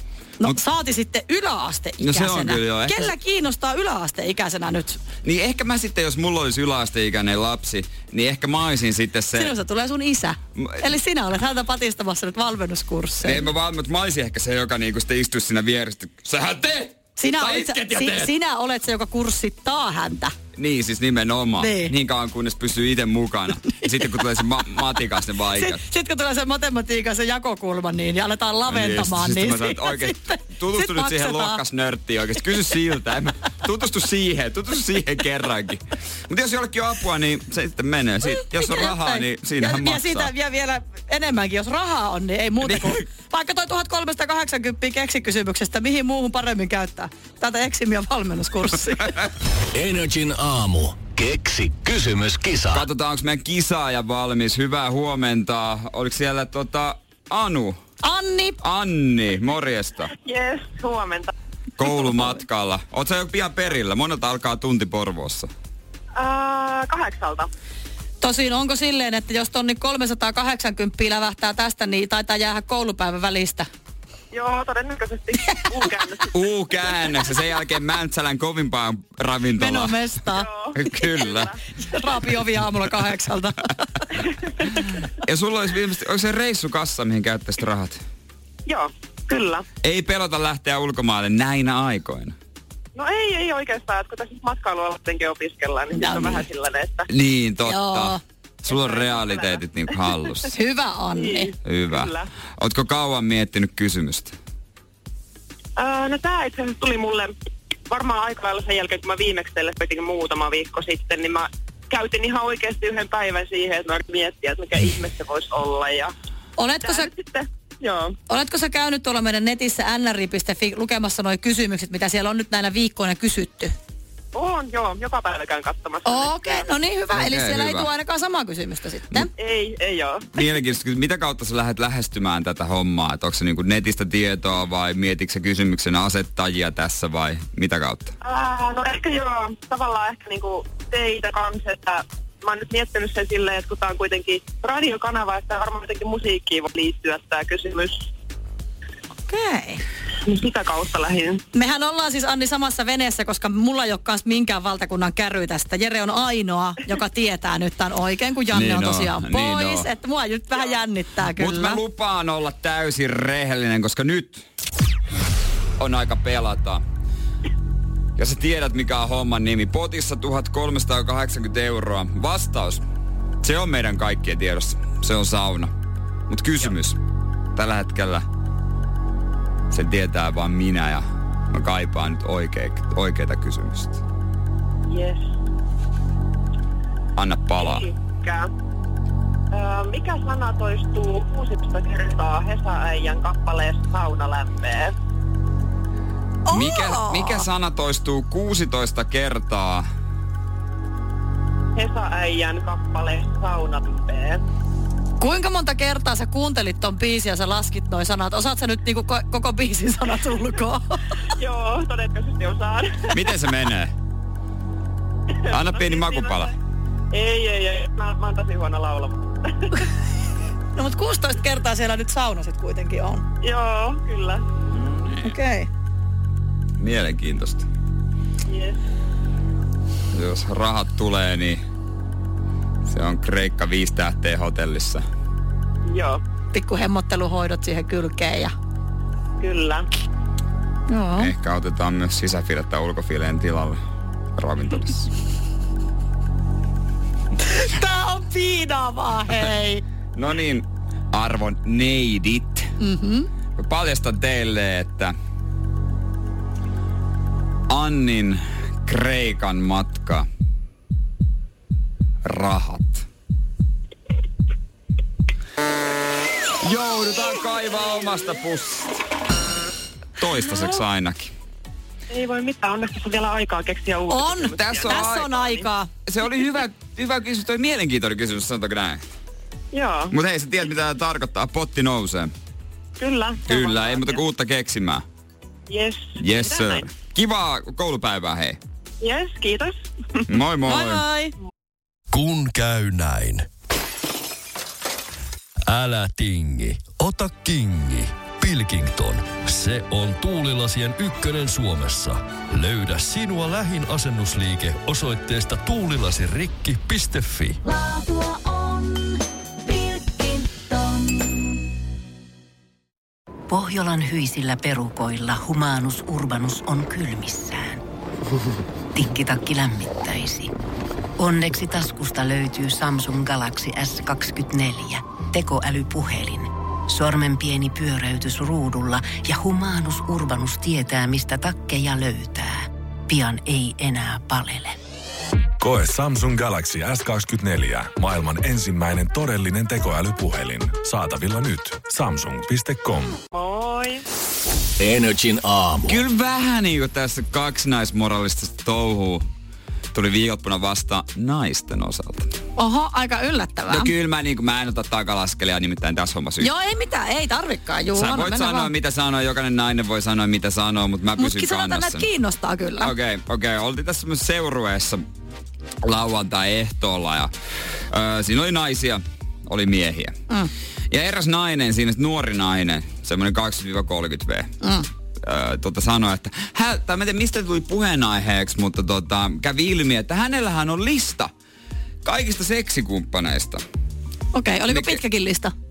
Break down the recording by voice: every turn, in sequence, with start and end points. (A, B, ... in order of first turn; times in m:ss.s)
0:00.4-0:05.0 A
0:02.0-0:03.1 B
0:05.2-0:09.5 B
0:09.3-0:13.5 A
0:10.6-0:10.9 B
0:13.2-0:18.3 B
0:17.2-0:20.3 A
0:20.6-0:25.8 B
0:21.6-0:21.9 A
0:25.5-0:31.6 A
0:28.7-0:40.3 B
0:38.2-0:49.1 A
0:42.6-0:43.0 B
0:49.7-0:52.8 C
0:52.7-0:57.8 B
0:58.0-0:58.6 A
0:58.6-1:00.1 B
1:00.2-1:01.3 D
1:01.8-1:05.5 B
1:06.1-1:07.5 D
1:08.2-1:13.7 A
1:14.3-1:16.4 D
1:16.3-1:20.0 B
1:19.6-1:20.5 A
1:20.3-1:21.6 D
1:20.7-1:21.5 B
1:21.8-1:24.0 A
1:25.2-1:28.0 B
1:28.6-1:29.6 D
1:29.8-1:32.4 B
1:32.9-1:37.1 D
1:35.9-1:36.4 A
1:37.1-1:40.5 B
1:37.6-1:38.2 A
1:38.7-1:39.6 D
1:40.5-1:41.5 A
1:41.2-1:42.3 D
1:41.6-1:44.4 B
1:45.8-1:47.3 D
1:47.9-1:56.1 D
1:56.6-1:57.1 A
1:56.8-1:58.1 D
1:58.3-2:03.7 A
2:04.3-2:06.6 D
2:06.0-2:09.3 A
2:07.1-2:07.9 B
2:09.4-2:10.4 D
2:10.3-2:18.1 B
2:18.2-2:28.1 D
2:29.3-2:29.8 A
2:30.2-2:31.4 D
2:31.5-2:41.8 A
2:38.5-2:39.9 B
2:41.4-2:44.4 B
2:45.8-2:46.8 B
2:48.2-2:52.8 B
2:53.4-2:55.7 B
2:56.3-2:57.0 B
2:57.6-2:58.2 B
2:59.7-3:04.0 B
3:04.9-3:05.3 D
3:07.1-3:07.9 B
3:07.6-3:08.5 D
3:09.5-3:14.9 D
3:16.5-3:17.5 A
3:16.5-3:19.9 B
3:21.7-3:24.4 D
3:25.2-3:31.0 A
3:31.3-3:33.3 D
3:33.1-3:33.9 B
3:35.4-3:36.5 D
3:35.5-3:36.5 B
3:37.1-3:39.7 D
3:40.8-3:43.2 A
3:43.4-3:44.5 D
3:44.7-3:45.3 B
3:45.2-3:45.7 A
3:46.8-3:47.7 B
3:48.5-3:48.8 D
3:50.1-3:51.6 B
3:52.8-3:55.0 B
3:55.8-3:56.2 D
3:56.5-3:58.5 A
3:59.4-3:59.9 D
4:00.9-4:01.3 A
4:01.2-4:03.8 B
4:04.4-4:05.1 B
4:07.4-4:09.8 A
4:10.1-4:12.7 B
4:12.8-4:13.3 A
4:13.6-4:15.1 B
4:17.7-4:20.3 B
4:22.2-4:23.1 B
4:26.6-4:29.0 B
4:30.2-4:31.3 B
4:32.1-4:35.6 D
4:34.1-4:35.9 A
4:34.5-4:35.3 B
4:36.0-4:39.0 B
4:39.7-4:40.1 D
4:40.1-4:42.3 B
4:43.0-4:44.2 D
4:43.5-4:45.0 B
4:45.7-4:46.8 D
4:46.2-4:48.6 B
4:49.0-4:50.3 D
4:50.3-4:51.0 B
4:50.6-4:51.3 A
4:52.1-4:53.5 E
4:55.7-5:07.6 E
5:07.8-5:09.1 F
5:09.7-5:11.2 F
5:13.5-5:17.8 F
5:18.9-5:20.5 F
5:21.2-5:34.8 F
5:35.6-5:43.2 G
5:43.3-5:44.0 D
5:44.8-5:46.0 C
5:45.9-5:49.3 B
5:49.9-5:52.3 B
5:52.6-5:53.9 A
5:53.7-5:56.5 B
5:56.4-5:58.7 A
5:57.9-6:02.1 B
6:01.2-6:02.9 A
6:02.8-6:05.0 B
6:05.8-6:07.3 B
6:07.9-6:10.2 B
6:10.9-6:14.5 B
6:14.6-6:14.9 A
6:15.2-6:21.3 B
6:22.0-6:23.6 B
6:24.3-6:25.5 A
6:24.7-6:25.0 B